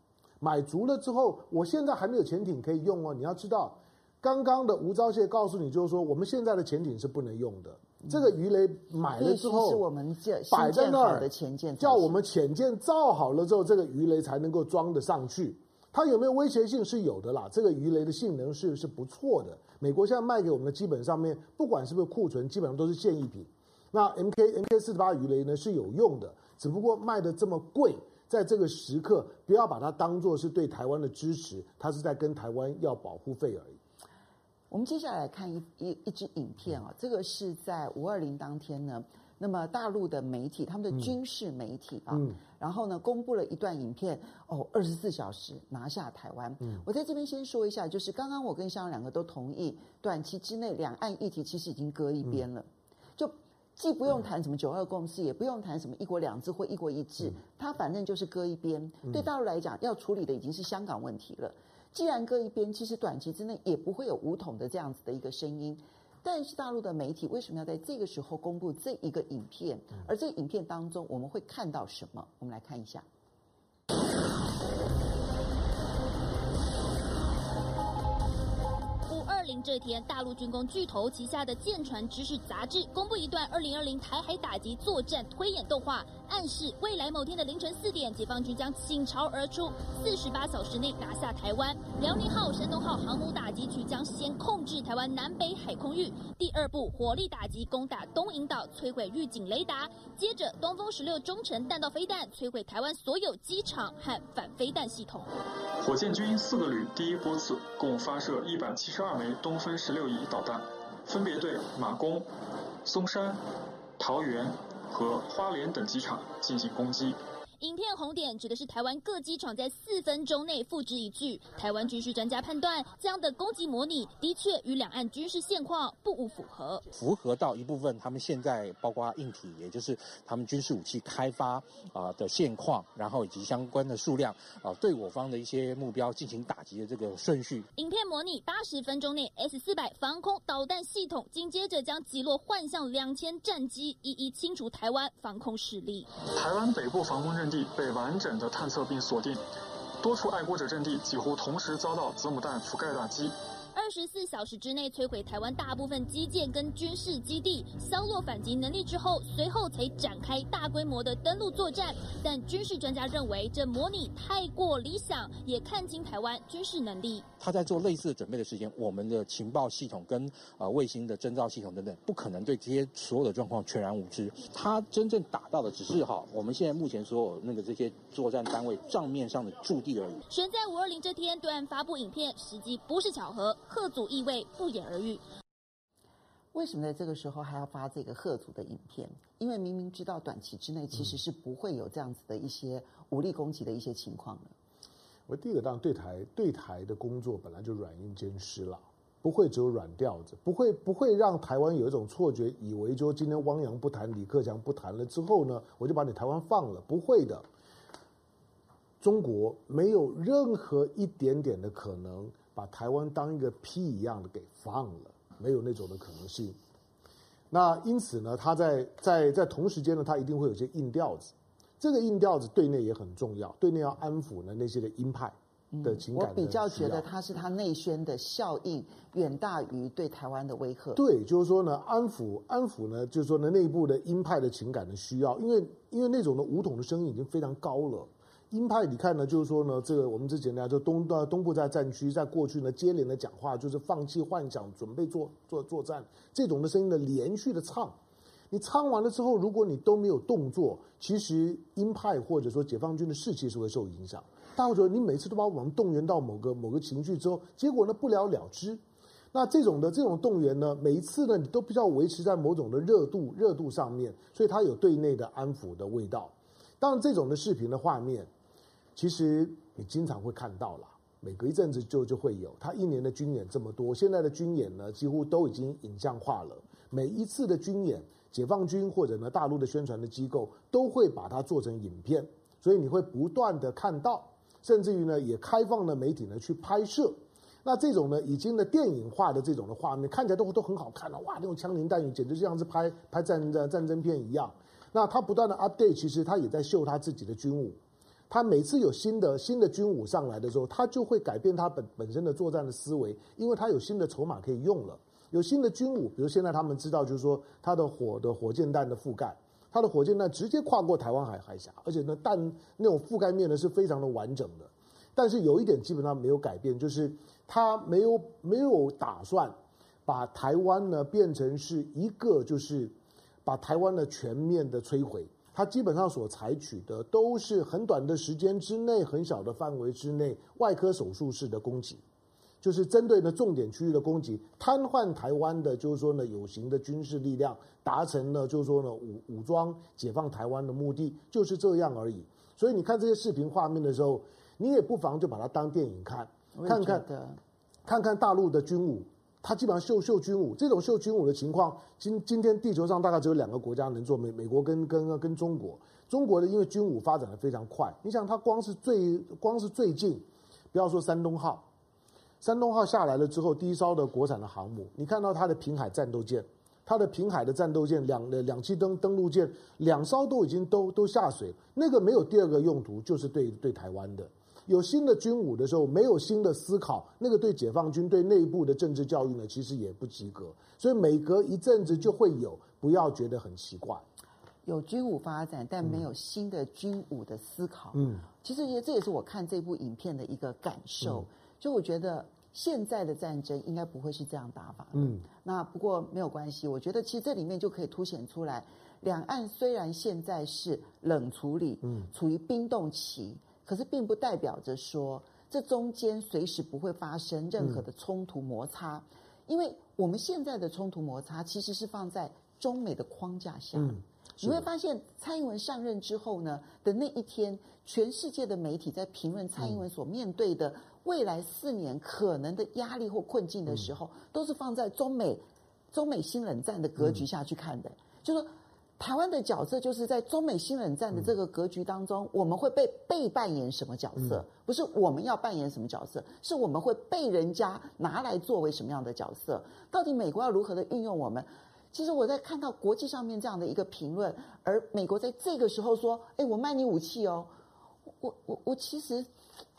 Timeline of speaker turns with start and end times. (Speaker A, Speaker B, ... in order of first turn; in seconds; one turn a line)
Speaker A: 0.4-9.8
Speaker B: 9.2-12.1
Speaker A: 10.5-33.8
Speaker B: 34.7-73.0
Speaker A: 42.1-42.4
Speaker C: 79.1-105.3
Speaker D: 105.8-112.3
Speaker D: 112.8-113.4
Speaker D: 114.0-117.2
Speaker C: 117.6-126.8
Speaker E: 126.9-137.7
Speaker C: 137.8-146.1
Speaker D: 146.2-149.4
Speaker D: 150.0-153.3
Speaker C: 153.7-167.2
Speaker E: 167.4-180.2
Speaker C: 180.3-185.2
Speaker B: 186.5-194.5
Speaker A: 195.3-207.4
Speaker A: 209.0-216.6
Speaker A: 217.5-227.1
Speaker B: 225.7-231.0
Speaker A: 230.9-248.0
Speaker A: 248.5-258.8
Speaker A: 259.3-268.3
Speaker A: 268.9-332.0
Speaker A: 332.6-347.1
Speaker B: 346.5-347.4
Speaker A: 347.9-361.7
Speaker A: 362.4-384.0
Speaker B: 384.6-447.5
Speaker A: 387.9-388.2
Speaker A: 391.0-391.2
Speaker A: 394.9-395.2
Speaker A: 401.8-402.1
Speaker A: 413.7-414.6
Speaker A: 434.1-434.4
Speaker B: 448.2-449.3